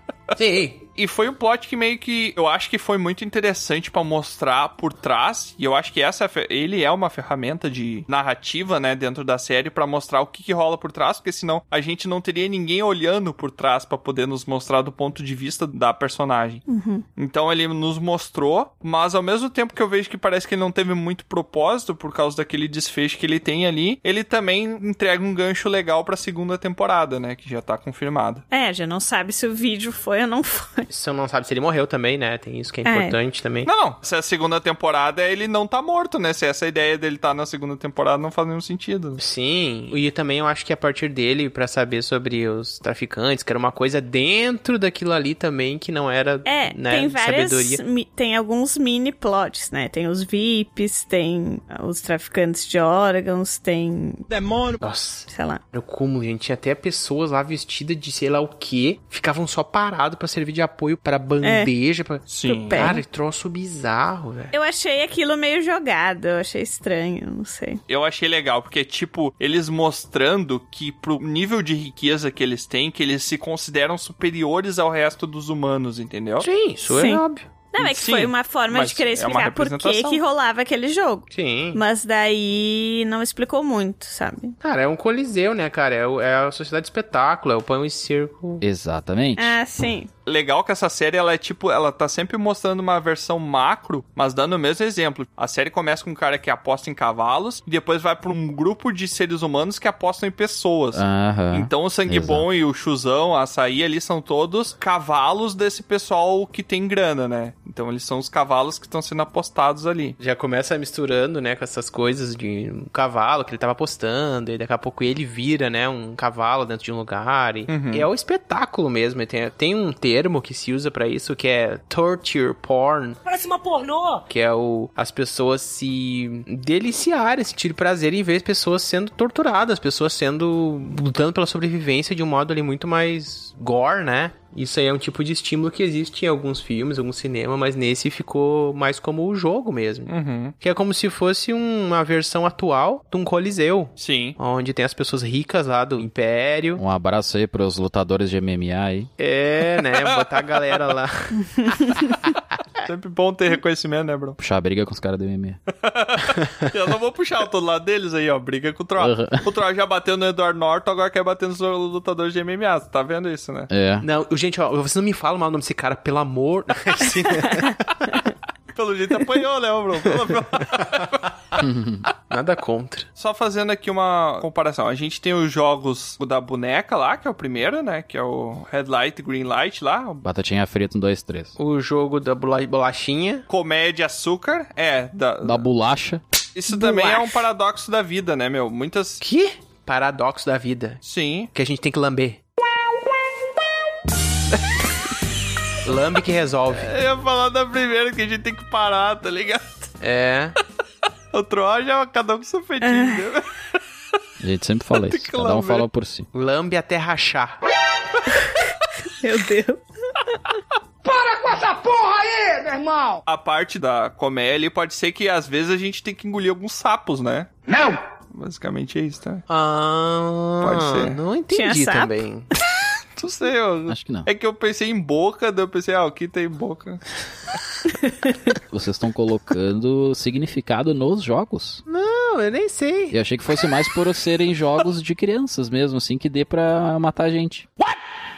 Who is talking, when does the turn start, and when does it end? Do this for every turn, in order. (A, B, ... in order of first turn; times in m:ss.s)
0:00.4-0:00.8 A
0:01.0-0:16.6 B
0:16.7-0:17.0 C
0:17.2-0:28.4 B
0:28.5-0:30.9 C
0:30.9-0:33.7 A
0:32.8-0:33.1 C
0:33.6-0:39.2 B
0:39.2-0:47.8 A
0:46.4-0:54.3 C
0:54.8-1:04.5 A
0:55.3-0:55.6 C
1:01.4-1:01.7 C
1:02.3-1:03.0 B
1:02.4-1:03.0 C
1:04.5-1:07.8 C
1:07.9-1:16.5 B
1:16.4-1:17.5 A
1:16.9-1:24.6 C
1:17.8-1:20.2 B
1:21.3-1:21.8 A
1:24.6-1:28.6 A
1:28.6-1:29.6 D
1:29.4-1:30.1 C
1:30.2-1:50.2 B
1:40.9-1:42.4 D
1:50.2-2:03.2 A
1:57.7-1:58.1 B
2:04.3-2:26.8 A
2:20.1-2:20.5 B
2:24.0-2:24.4 B
2:26.8-2:29.1 D
2:29.2-2:32.4 A
2:32.8-2:34.4 B
2:34.4-2:35.6 D
2:35.8-2:43.7 B
2:39.0-2:39.4 D
2:43.7-2:44.0 D
2:44.0-2:48.1 A
2:48.7-2:51.2 B
2:51.6-2:52.0 D
2:52.3-2:53.1 A
2:53.2-3:00.2 B
3:00.2-3:01.6 D
3:01.6-3:03.4 A
3:03.5-3:05.6 B
3:05.4-3:06.2 D
3:06.5-3:09.2 B
3:06.7-3:07.4 A
3:09.2-3:11.0 A
3:11.0-3:11.5 B
3:11.5-3:12.4 A
3:15.8-3:16.9 A
3:16.7-3:19.9 B
3:20.0-3:20.6 A
3:21.3-3:23.4 B
3:22.8-3:23.2 C
3:24.4-3:26.3 D
3:25.0-3:25.9 B
3:26.3-3:27.6 A
3:29.2-3:30.4 C
3:31.0-3:33.2 E
3:33.3-3:37.5 B
3:37.7-3:38.0 E
3:38.3-3:39.4 B
3:39.5-3:42.5 A
3:40.6-3:41.2 B
3:41.5-3:42.2 C
3:43.2-3:47.0 B
3:43.9-3:44.3 D
3:48.7-3:51.8 D
3:51.9-3:53.2 A
3:53.1-3:57.7 D